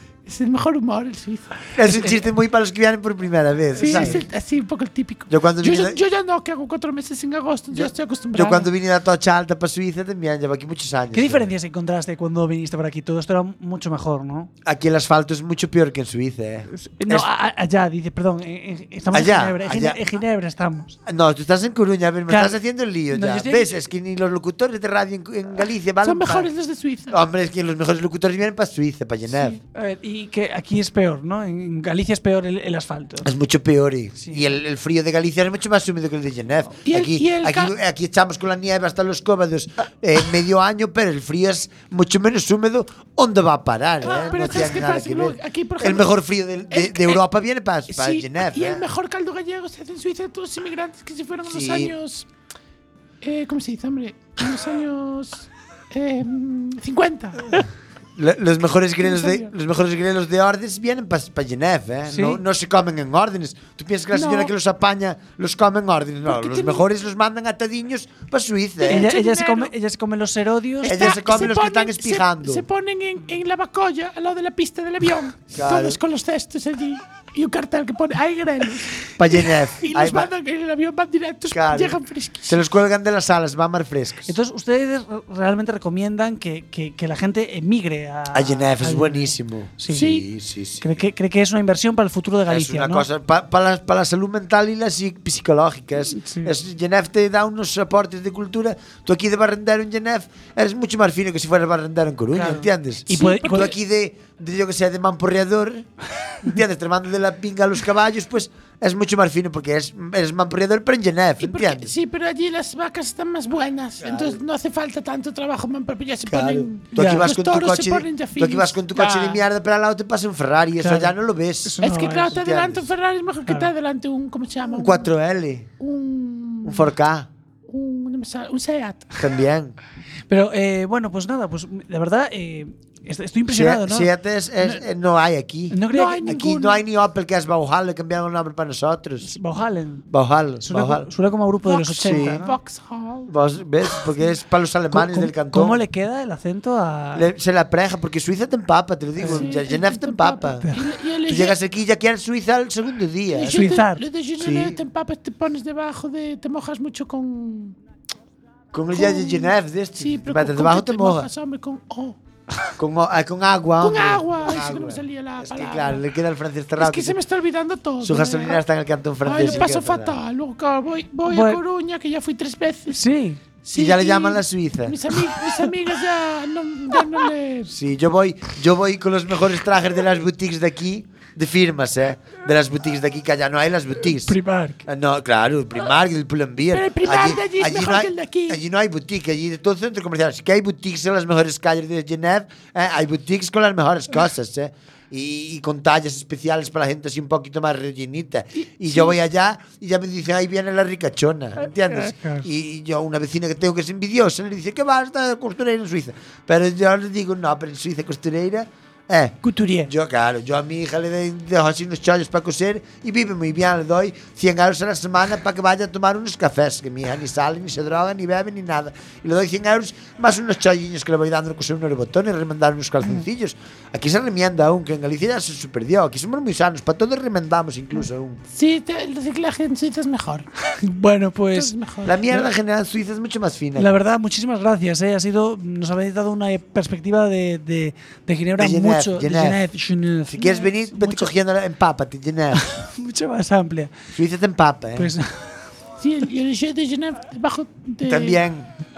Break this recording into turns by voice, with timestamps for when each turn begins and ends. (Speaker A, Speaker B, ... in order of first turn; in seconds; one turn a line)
Speaker A: 0.2-1.7
Speaker B: 1.8-4.2
Speaker C: 1.9-2.2
Speaker A: 3.8-8.7
Speaker C: 3.8-4.2
Speaker B: 5.3-6.0
Speaker B: 7.7-11.5
Speaker C: 11.1-14.5
Speaker B: 14.6-17.3
Speaker C: 16.7-21.0
Speaker B: 19.1-20.0
Speaker B: 21.1-26.5
Speaker C: 22.3-22.6
Speaker C: 23.1-23.7
Speaker A: 26.0-27.2
Speaker B: 27.1-29.6
Speaker C: 29.7-33.3
Speaker B: 33.2-48.8
Speaker C: 34.2-34.5
Speaker A: 36.8-37.8
Speaker A: 44.0-46.1
Speaker A: 46.7-47.2
Speaker A: 47.9-52.3
Speaker B: 51.5-52.0
Speaker A: 53.2-57.6
Speaker B: 58.2-69.1
Speaker A: 59.0-59.5
Speaker C: 62.1-62.4
Speaker A: 64.1-64.5
Speaker A: 66.3-66.8
Speaker A: 68.8-69.7
Speaker C: 68.9-71.1
Speaker A: 70.8-82.7
Speaker B: 70.8-72.7
Speaker B: 75.5-76.0
Speaker B: 79.2-80.3
Speaker B: 81.5-84.3
Speaker C: 84.3-90.1
Speaker B: 88.3-90.9
Speaker A: 89.9-90.3
Speaker C: 90.8-93.1
Speaker B: 92.5-105.9
Speaker C: 96.1-96.5
Speaker C: 102.3-103.8
Speaker A: 103.1-103.7
Speaker B: 106.4-111.9
Speaker A: 111.4-118.8
Speaker B: 114.0-114.4
Speaker B: 116.3-122.9
Speaker C: 116.9-117.3
Speaker C: 119.0-119.4
Speaker C: 120.8-122.4
Speaker A: 121.8-125.1
Speaker C: 123.5-123.7
Speaker B: 124.7-125.7
Speaker A: 125.8-126.9
Speaker B: 126.7-127.3
Speaker A: 127.7-129.2
Speaker B: 129.2-129.8
Speaker C: 130.3-134.1
Speaker B: 133.5-139.3
Speaker C: 135.7-136.4
Speaker A: 135.9-136.8
Speaker C: 139.2-140.1
Speaker B: 140.1-141.1
Speaker C: 140.6-142.6
Speaker A: 141.7-143.3
Speaker B: 142.0-142.4
Speaker B: 143.3-145.8
Speaker C: 144.9-147.3
Speaker B: 147.2-150.7
Speaker C: 149.2-149.5
Speaker A: 149.2-151.6
Speaker B: 151.3-153.8
Speaker A: 153.3-157.8
Speaker C: 153.5-154.0
Speaker B: 154.4-154.8
Speaker B: 158.7-161.3
Speaker A: 158.9-162.2
Speaker B: 162.8-167.2
Speaker A: 163.8-166.0
Speaker A: 166.8-168.6
Speaker B: 168.0-170.2
Speaker A: 169.2-173.0
Speaker C: 171.3-171.6
Speaker C: 172.9-173.4
Speaker A: 173.7-177.7
Speaker B: 173.7-175.1
Speaker B: 177.7-228.4
Speaker C: 184.2-184.8
Speaker A: 186.7-188.6
Speaker A: 198.6-199.2
Speaker C: 201.9-202.5
Speaker C: 209.4-209.9
Speaker A: 228.5-230.5
Speaker C: 230.8-231.7
Speaker A: 231.5-232.4
Speaker B: 232.1-233.9
Speaker C: 233.8-241.3
Speaker B: 238.6-239.6
Speaker B: 240.3-242.7
Speaker C: 242.7-244.0
Speaker B: 244.1-245.1
Speaker C: 245.0-245.3
Speaker A: 246.0-248.4
Speaker B: 248.1-248.7